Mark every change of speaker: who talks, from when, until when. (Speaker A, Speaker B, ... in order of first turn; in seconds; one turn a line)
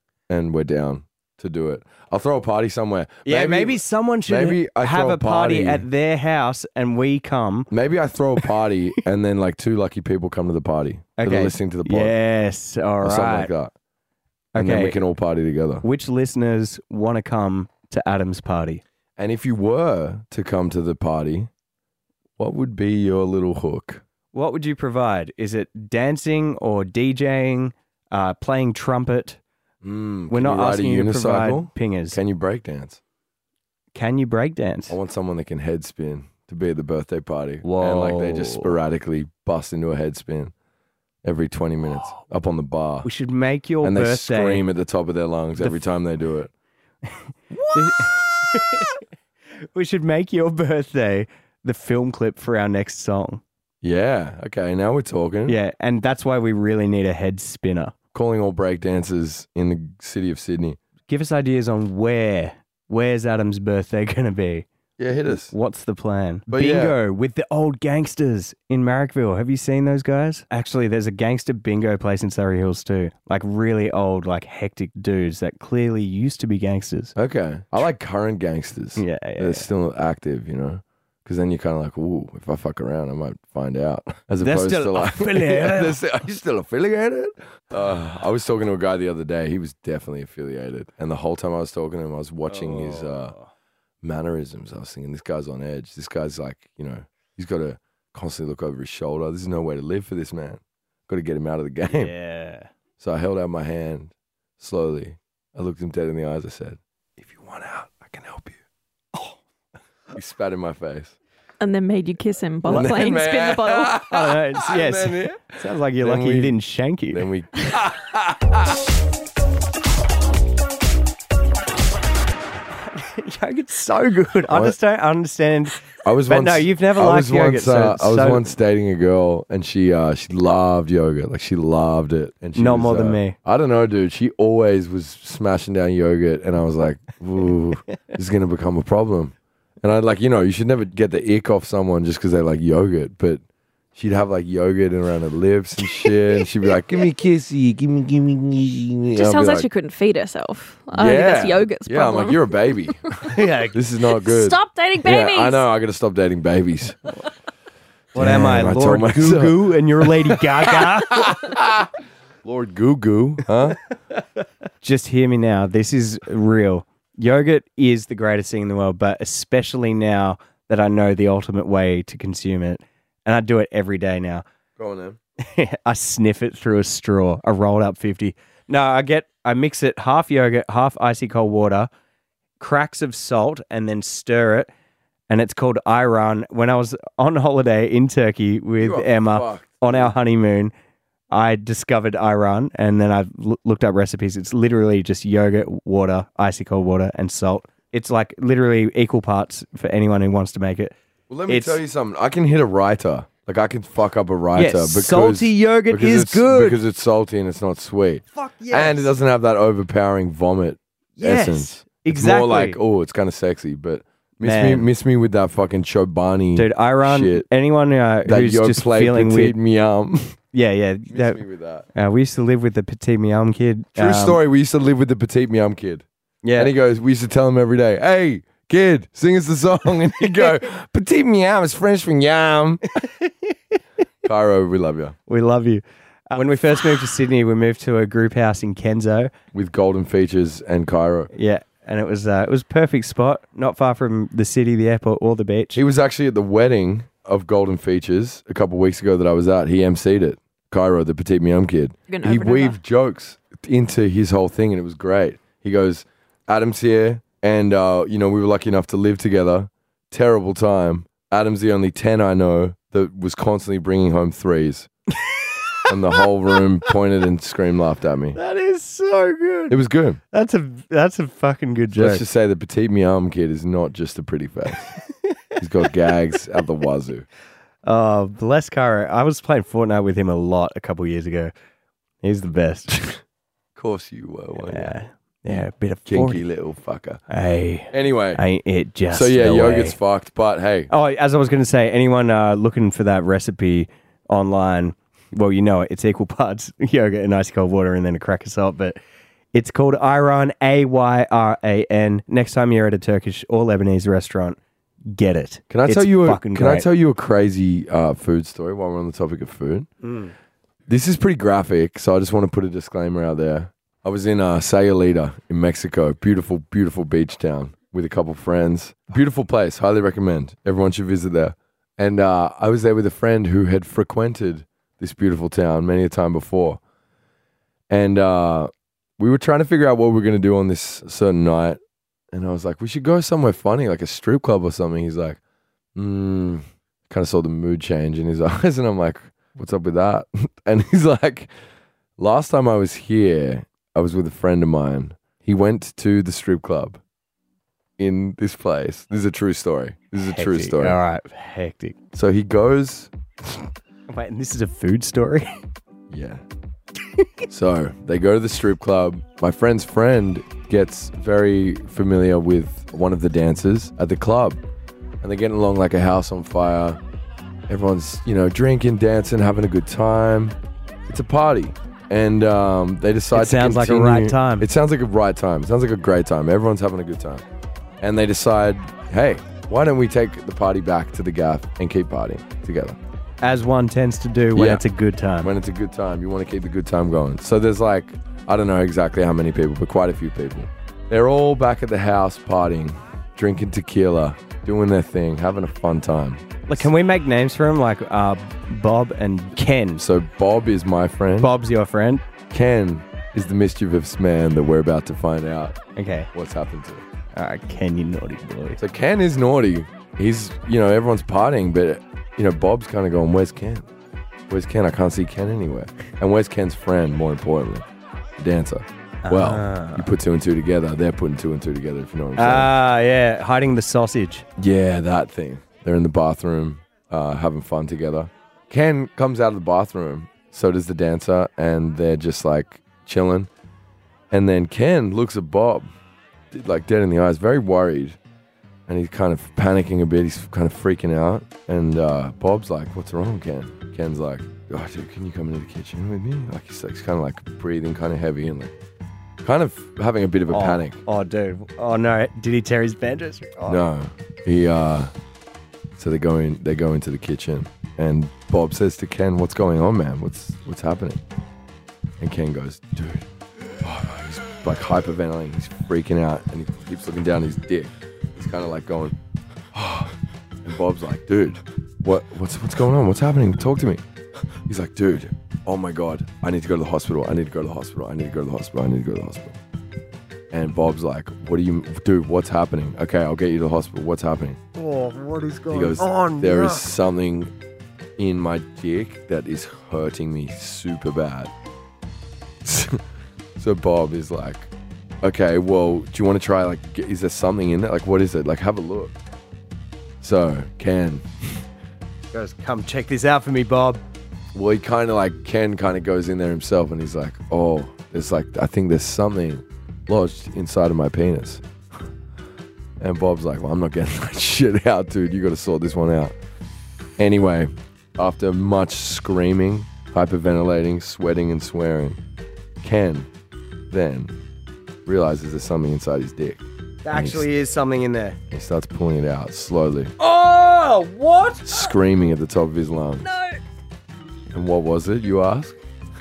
Speaker A: 0.3-5.9
Speaker B: 3.3-7.7
Speaker A: 7.7-12.2
Speaker B: 11.2-13.5
Speaker A: 13.0-13.7
Speaker B: 14.5-15.0
Speaker A: 14.6-15.8
Speaker B: 15.8-18.8
Speaker A: 19.2-21.5
Speaker A: 22.4-24.0
Speaker B: 24.3-29.4
Speaker A: 29.8-33.0
Speaker B: 30.3-32.2
Speaker B: 33.9-35.0
Speaker A: 34.9-40.5
Speaker B: 37.6-38.7
Speaker A: 41.2-43.1
Speaker B: 43.0-44.6
Speaker A: 43.8-46.5
Speaker B: 47.7-49.0
Speaker A: 47.7-48.1
Speaker B: 49.6-53.4
Speaker A: 53.8-55.6
Speaker B: 55.5-58.0
Speaker A: 58.1-60.8
Speaker B: 61.1-64.7
Speaker A: 65.0-65.5
Speaker B: 65.5-77.2
Speaker A: 66.5-67.0
Speaker A: 77.2-93.3
Speaker B: 79.0-79.7
Speaker B: 84.4-86.0
Speaker B: 92.5-93.5
Speaker A: 94.0-102.1
Speaker B: 101.9-102.7
Speaker A: 103.0-108.6
Speaker A: 110.1-111.2
Speaker C: 111.6-114.0
Speaker A: 112.7-116.6
Speaker B: 114.0-117.2
Speaker A: 117.1-118.8
Speaker B: 122.7-128.5
Speaker A: 124.5-124.8
Speaker A: 126.0-143.4
Speaker B: 132.6-133.4
Speaker A: 143.9-149.7
Speaker C: 149.2-153.3
Speaker A: 150.9-157.2
Speaker B: 153.3-153.8
Speaker C: 154.2-155.7
Speaker A: 158.1-161.9
Speaker B: 158.2-161.6
Speaker A: 162.4-163.8
Speaker B: 164.8-174.4
Speaker A: 174.8-175.2
Speaker B: 175.4-181.9
Speaker B: 182.6-184.7
Speaker B: 185.3-190.7
Speaker A: 188.8-190.1
Speaker B: 191.3-200.9
Speaker A: 201.3-217.5
Speaker B: 201.5-201.8
Speaker B: 204.6-206.8
Speaker B: 208.3-209.1
Speaker B: 211.2-212.8
Speaker B: 214.4-214.9
Speaker B: 216.6-219.6
Speaker A: 218.2-220.4
Speaker B: 220.5-221.4
Speaker A: 221.1-221.9
Speaker B: 221.9-224.4
Speaker A: 224.0-226.0
Speaker B: 226.4-226.7
Speaker A: 226.6-232.9
Speaker B: 233.0-233.5
Speaker A: 234.2-235.2
Speaker B: 235.3-239.3
Speaker A: 239.5-241.3
Speaker B: 241.3-245.8
Speaker A: 245.7-264.9
Speaker C: 252.1-252.8
Speaker B: 265.2-265.9
Speaker A: 265.9-268.4
Speaker B: 268.4-269.8
Speaker A: 269.7-270.2
Speaker B: 270.3-272.2
Speaker A: 271.9-275.0
Speaker A: 275.6-277.3
Speaker B: 277.8-281.5
Speaker B: 282.2-283.2
Speaker A: 283.8-284.9
Speaker B: 284.6-286.4
Speaker A: 285.5-287.2
Speaker B: 287.3-290.0
Speaker A: 287.9-288.4
Speaker A: 289.1-290.9
Speaker B: 290.9-299.0
Speaker B: 299.5-306.9
Speaker A: 305.7-309.9
Speaker B: 310.0-310.3
Speaker A: 310.9-326.8
Speaker A: 327.9-331.8
Speaker A: 332.3-335.4
Speaker A: 335.9-341.5
Speaker A: 342.2-347.0
Speaker A: 348.0-351.0
Speaker B: 350.2-352.0
Speaker A: 352.1-353.1
Speaker B: 354.1-355.5
Speaker A: 356.1-356.4
Speaker A: 357.5-364.6
Speaker A: 365.2-367.0
Speaker A: 367.7-370.6
Speaker A: 371.1-377.4
Speaker B: 373.3-374.7
Speaker A: 378.0-383.0
Speaker B: 383.4-385.5
Speaker A: 384.6-384.8
Speaker A: 385.4-396.9
Speaker B: 396.7-400.1
Speaker A: 400.0-401.5
Speaker B: 401.4-402.2
Speaker A: 402.5-405.8
Speaker B: 406.0-406.3
Speaker A: 406.3-407.0
Speaker B: 407.4-408.8
Speaker A: 408.8-413.9
Speaker A: 414.5-417.9
Speaker A: 418.4-422.7
Speaker B: 419.2-420.1
Speaker B: 422.4-424.4
Speaker A: 424.6-433.5
Speaker A: 434.3-435.9
Speaker A: 436.5-438.2
Speaker A: 438.9-448.7
Speaker A: 449.4-451.0
Speaker B: 450.5-453.9
Speaker A: 453.7-455.1
Speaker A: 456.0-461.2
Speaker A: 462.2-463.3
Speaker A: 463.8-469.2
Speaker A: 469.7-474.0
Speaker A: 474.6-479.6
Speaker A: 480.5-484.6
Speaker B: 484.8-486.9
Speaker A: 485.7-487.5
Speaker A: 488.2-491.5
Speaker A: 492.6-493.0
Speaker A: 493.6-494.7
Speaker A: 495.2-499.1
Speaker A: 500.2-501.2
Speaker B: 502.3-504.0
Speaker A: 504.5-511.6
Speaker A: 513.0-516.4
Speaker A: 517.2-522.2
Speaker A: 522.8-523.3
Speaker A: 523.9-524.3
Speaker A: 525.1-527.5
Speaker B: 527.0-528.4
Speaker A: 528.5-530.1
Speaker B: 530.2-531.9
Speaker A: 531.6-533.3
Speaker B: 533.2-533.6
Speaker A: 534.5-535.8